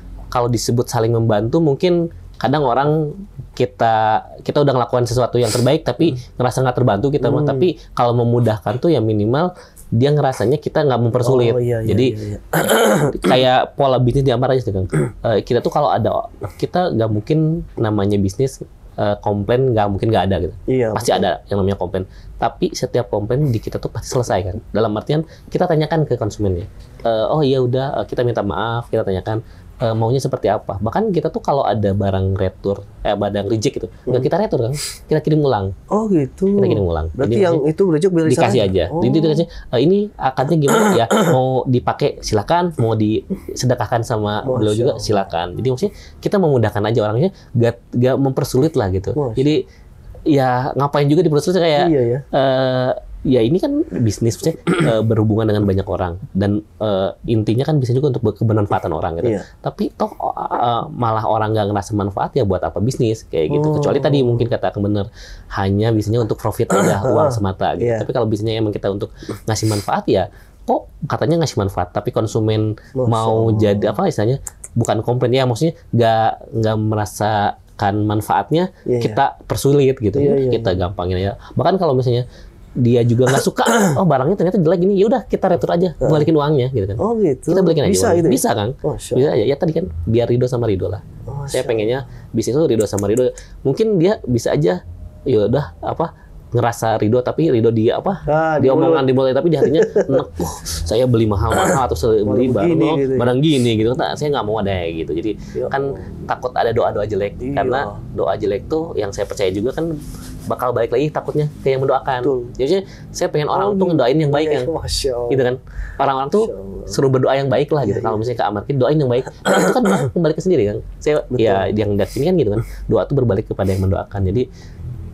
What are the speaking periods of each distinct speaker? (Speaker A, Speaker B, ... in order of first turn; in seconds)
Speaker A: 0.3-35.7, 36.6-37.6, 38.2-49.6, 50.3-82.2, 82.8-110.0, 110.5-114.7, 115.3-124.5
Speaker B: 7.2-7.7, 11.2-13.1, 20.7-21.2, 35.9-39.4, 44.4-45.2, 49.1-49.5, 51.8-52.2, 59.2-59.5, 63.5-64.5, 66.8-68.1, 73.0-74.0, 78.8-79.2, 80.1-80.8, 87.0-89.3, 91.3-91.9, 98.3-99.1, 99.6-100.2, 102.2-103.3, 105.5-106.1, 107.4-108.0, 112.2-112.5, 113.5-115.5, 116.3-117.0, 117.8-118.2, 121.3-121.7